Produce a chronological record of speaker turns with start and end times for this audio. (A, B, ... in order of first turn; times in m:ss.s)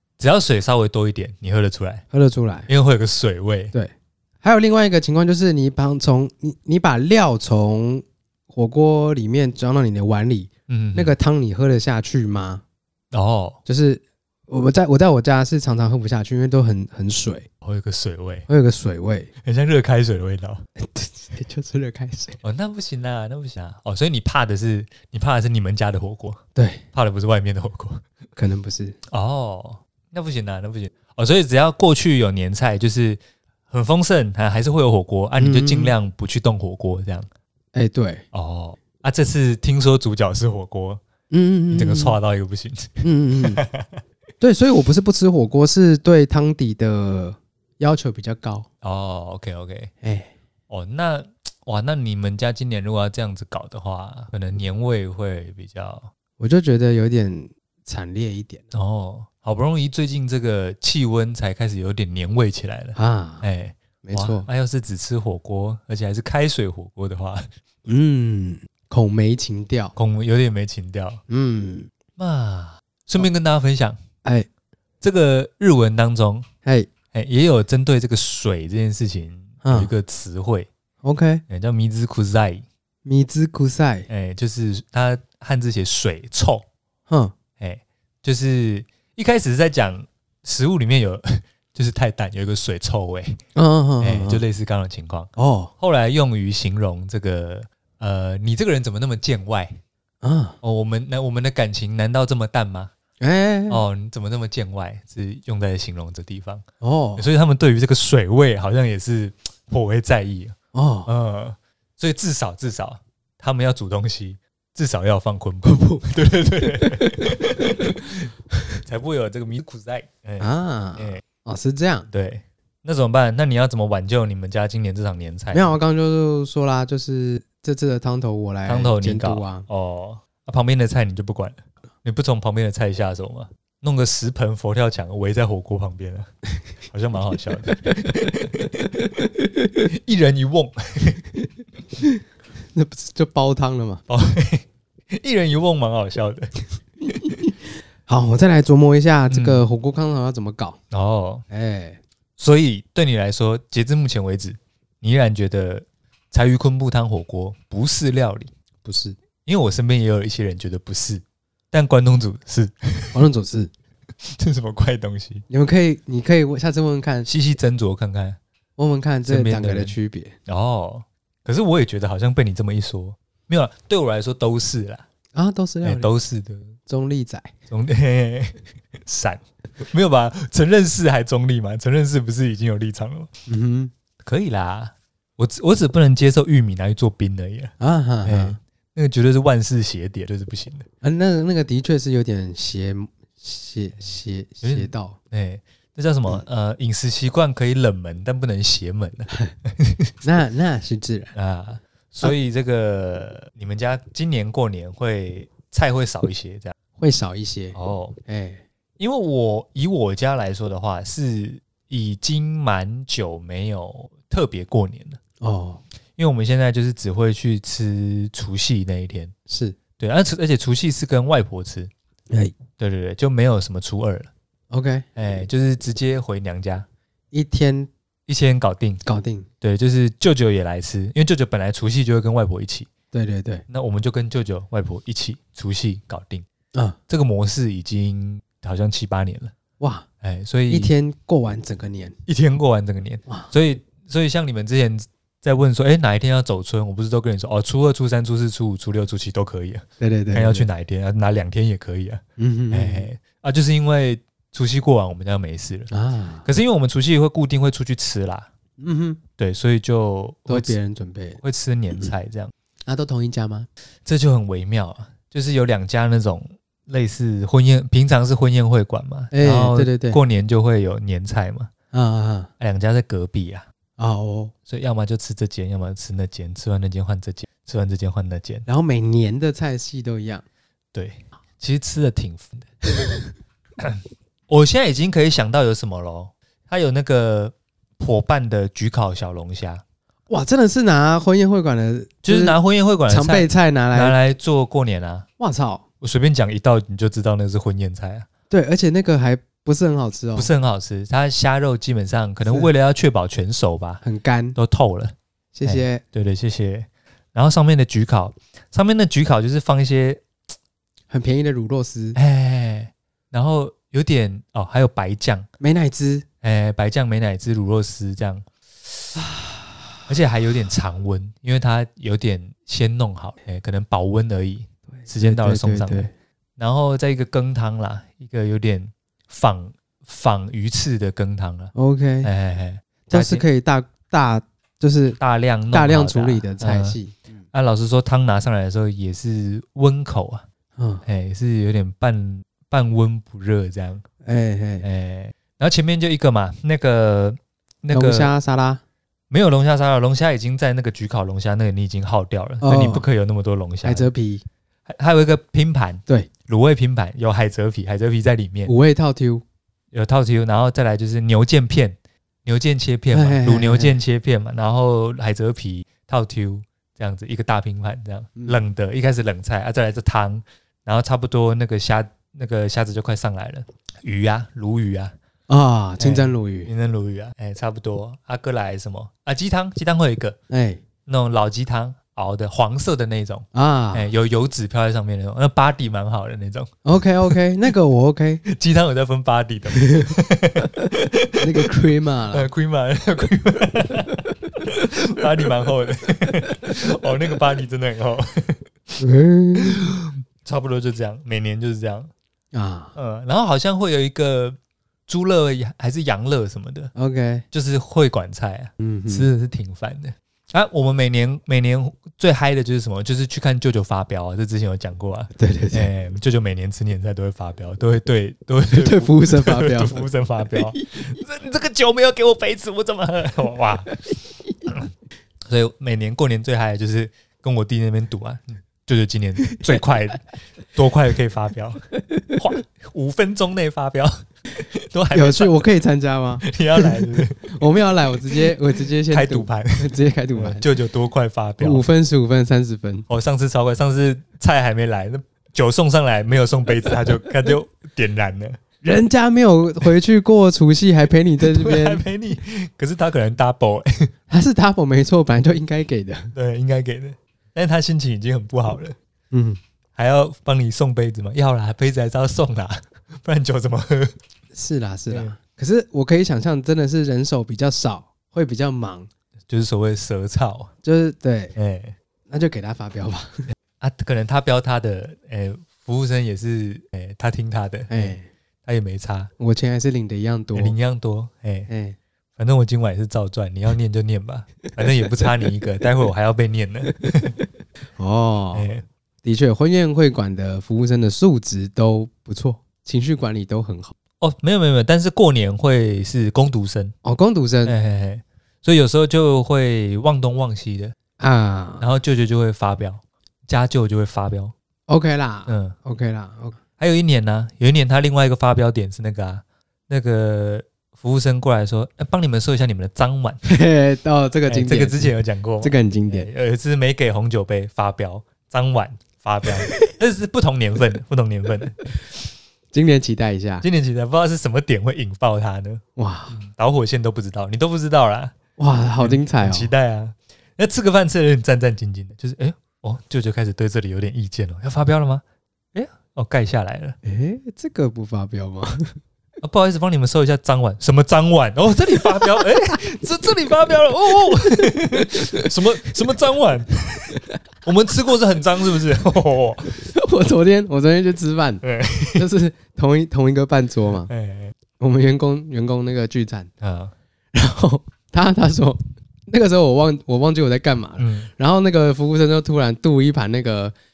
0:00.2-0:02.0 A
0:02.1-0:02.7 B
0:02.7-0:03.8 A
0:03.7-0:12.6 B
0:10.7-0:11.1 A
0:13.1-0:13.6 A
0:13.7-0:17.5 B
0:17.6-0:18.5 A
0:18.5-0:19.3 B
0:19.4-0:20.6 A
0:20.8-0:22.4 B
0:22.4-0:26.4 A
0:26.6-0:26.8 B
0:26.9-0:28.0 A
0:28.4-0:29.0 B
0:29.1-0:37.3 A
0:35.4-0:35.9 B
0:37.7-0:38.2 B
0:38.3-0:41.0 A
0:41.3-0:42.2 B
0:41.7-0:44.0 A
0:43.0-0:43.6 B
0:44.4-0:48.7 B
0:48.8-0:49.9 A
0:50.0-0:50.3 B
0:50.7-0:56.1 A
0:56.4-0:58.6 B
0:58.7-1:07.5 A
1:03.0-1:03.4 B
1:04.0-1:04.5 B
1:07.9-1:09.9 B
1:10.0-1:11.2 A
1:11.3-1:11.9 B
1:12.2-1:14.0 A
1:15.0-1:16.5 A
1:16.6-1:16.9 B
1:17.1-1:20.7 A
1:19.6-1:19.9 B
1:21.0-1:21.4 B
1:21.5-1:22.7 A
1:23.0-1:24.1 B
1:24.1-1:26.7 A
1:27.1-1:27.4 B
1:27.6-1:33.4 A
1:33.6-1:34.4 B
1:34.0-1:39.8 A
1:35.4-1:35.7 B
1:40.2-1:40.6 B
1:40.6-1:42.9 A
1:43.2-1:43.8 B
1:43.7-1:46.6 A
1:46.8-1:47.3 B
1:47.2-1:58.3 A
1:50.7-1:51.1 B
1:55.6-1:56.1 B
1:56.8-1:57.9 B
1:58.8-2:01.2 A
2:00.4-2:02.1 B
2:02.1-2:05.7 A
2:05.5-2:09.7 B
2:08.7-2:16.3 A
2:16.8-2:17.9 A
2:17.9-2:19.8 B
2:19.9-2:21.2 A
2:22.7-2:24.0 B
2:24.1-2:27.2 A
2:28.1-2:30.8 B
2:29.3-2:29.6 A
2:30.9-2:31.4 A
2:31.5-2:32.0 B
2:32.4-2:38.5 A
2:38.8-2:39.2 B
2:39.5-2:43.2 A
2:43.1-2:43.7 B
2:44.2-2:45.4 A
2:45.5-2:47.3 B
2:47.3-2:48.4 A
2:48.8-2:50.4 B
2:49.2-2:50.0 A
2:50.5-2:55.0 A
2:55.3-2:56.1 B
2:55.8-2:56.8 A
2:56.9-2:57.5 B
2:57.7-3:03.3 A
3:03.5-3:03.9 B
3:04.2-3:07.7 A
3:07.8-3:08.6 B
3:08.2-3:10.9 A
3:11.0-3:15.2 B
3:14.6-3:20.1 A
3:20.2-3:21.3 B
3:21.4-3:26.7 A
3:27.0-3:28.6 B
3:27.8-3:28.2 A
3:29.0-3:35.2 A
3:35.4-3:35.8 B
3:36.2-3:39.3 A
3:39.5-3:39.8 B
3:40.0-3:41.9 A
3:42.3-3:42.6 B
3:42.8-3:44.3 A
3:44.7-3:45.1 B
3:45.2-3:46.9 A
3:47.3-3:47.9 B
3:48.3-3:49.0 A
3:49.0-3:49.5 B
3:49.6-3:52.9 A
3:53.1-3:53.6 B
3:53.7-3:56.5 A
3:57.1-3:59.5 A
3:59.8-4:00.1 B
4:00.2-4:00.9 A
4:00.7-4:02.2 B
4:02.3-4:15.9 A
4:10.0-4:10.7 B
4:12.4-4:13.1 B
4:15.9-4:16.5 B
4:16.4-4:18.5 A
4:18.8-4:19.2 B
4:19.4-4:20.8 A
4:20.5-4:21.4 B
4:21.4-4:22.5 A
4:22.9-4:23.7 B
4:24.0-4:31.7 A
4:29.3-4:30.2 B
4:31.9-4:32.5 B
4:32.6-4:33.7 A
4:34.0-4:34.5 B
4:34.7-4:38.7 A
4:38.7-4:40.4 B
4:40.9-4:42.8 A
4:43.8-4:49.8 A
4:50.3-4:52.6 B
4:52.2-4:55.3 A
4:53.1-4:54.2 B
4:55.4-4:55.8 B
4:56.0-4:58.3 A
4:58.5-5:00.5 B
5:00.4-5:04.0 A
5:04.0-5:04.6 B
5:04.6-5:10.2 A
5:05.5-5:06.0 B
5:11.1-5:12.2 B
5:12.2-5:15.5 A
5:15.6-5:16.3 B
5:16.4-5:18.5 A
5:19.2-5:19.8 B
5:20.1-5:31.7 A
5:25.0-5:26.1 B
5:31.8-5:32.3 B
5:32.2-5:33.5 A
5:33.1-5:35.2 B
5:35.2-5:37.0 A
5:35.7-5:37.2 B
5:37.5-5:40.4 A
5:40.8-5:41.0 B
5:41.0-5:44.0 A
5:44.2-5:44.8 B
5:44.8-5:48.3 A
5:47.9-5:48.8 B
5:49.3-5:54.1 A
5:52.6-5:53.0 B
5:53.8-5:54.4 B
5:54.9-5:58.7 A
5:58.7-5:59.4 B
5:59.9-6:15.2 A
6:03.1-6:04.0 B
6:15.5-6:16.7 B
6:16.0-6:20.4 A
6:20.5-6:20.8 B
6:21.1-6:26.7 A
6:23.5-6:24.1 B
6:26.8-6:28.4 B
6:28.4-6:39.0 A
6:29.8-6:30.2 B
6:31.4-6:32.5 B
6:39.0-6:39.8 B
6:39.6-6:42.1 A
6:42.5-6:43.0 B
6:43.0-6:46.9 A
6:47.0-6:47.4 B
6:47.5-7:04.0 A
6:48.8-6:49.3 B
6:55.4-6:55.9 B
6:58.7-7:00.1 B
7:05.5-7:11.8 A
7:12.3-7:15.6 A
7:15.1-7:20.7 B
7:16.4-7:17.6 A
7:19.1-7:21.8 A
7:21.6-7:23.1 B
7:23.1-7:28.6 A
7:28.8-7:32.0 B
7:31.4-7:34.1 A
7:34.3-7:36.3 B
7:36.3-7:39.0 A
7:39.3-7:39.6 B
7:40.0-7:44.2 A
7:44.5-7:49.1 B
7:45.1-7:45.4 A
7:49.5-7:50.7 A
7:50.8-7:51.6 B
7:51.6-7:52.0 A
7:52.3-7:53.4 B
7:53.8-7:59.3 A
7:57.9-7:58.2 B
7:59.4-8:00.8 B
8:00.6-8:01.7 A
8:01.7-8:02.0 B
8:02.4-8:07.4 A
8:08.0-8:08.7 B
8:08.5-8:08.8 A
8:09.2-8:13.9 B
8:14.2-8:16.9 A
8:17.0-8:17.7 B
8:17.6-8:21.0 A
8:21.2-8:21.9 B
8:21.8-8:24.5 A
8:24.9-8:26.6 B
8:25.5-8:25.8 A
8:26.8-8:33.4 A
8:33.4-8:36.3 B
8:34.5-8:41.9 A
8:42.7-8:43.6 B
8:43.6-8:48.3 A
8:46.0-8:46.4 B
8:48.6-8:49.7 B
8:49.0-8:55.2 A
8:55.8-8:57.0 A
8:57.0-8:59.0 B
8:59.4-9:09.8 A
9:09.8-9:11.6 B
9:11.6-9:12.2 A
9:12.2-9:14.1 B
9:14.1-9:14.6 A
9:14.8-9:16.5 B
9:16.6-9:16.9 A
9:17.3-9:23.8 B
9:21.0-9:21.3 A